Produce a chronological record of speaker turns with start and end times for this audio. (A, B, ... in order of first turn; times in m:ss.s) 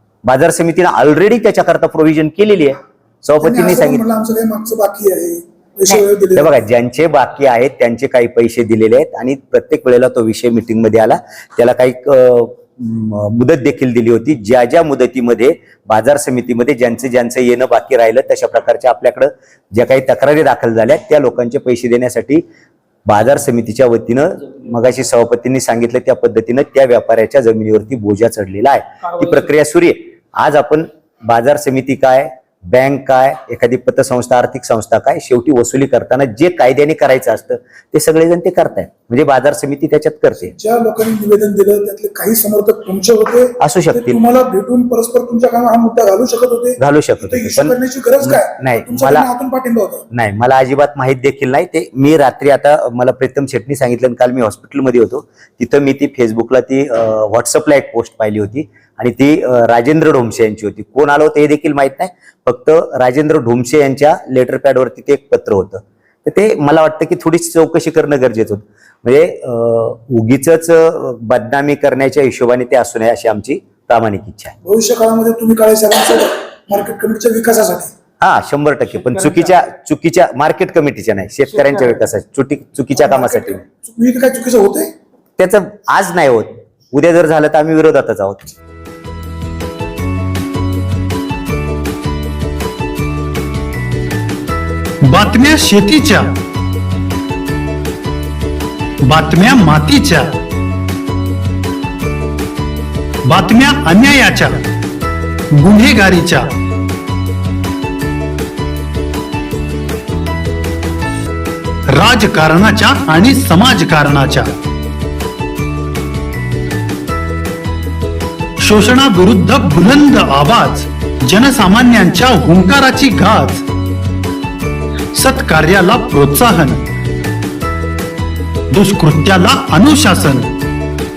0:00.2-0:04.0 A
0:03.4-0:06.5 B
0:06.4-0:22.4 A
0:23.1-0:40.5 A
0:40.5-0:50.1 B
0:43.6-0:44.2 A
0:46.8-0:49.3 A
0:50.1-1:14.6 A
1:14.6-1:17.9 B
1:18.2-1:23.6 A
1:23.0-1:24.9 B
1:25.4-1:28.6 A
1:35.0-1:36.4 C
1:39.0-1:40.4 C
1:43.2-1:44.7 C
1:45.5-1:46.6 C
1:51.9-1:54.6 C
1:58.6-2:03.7 C
2:05.1-2:06.9 C
2:08.7-2:10.5 C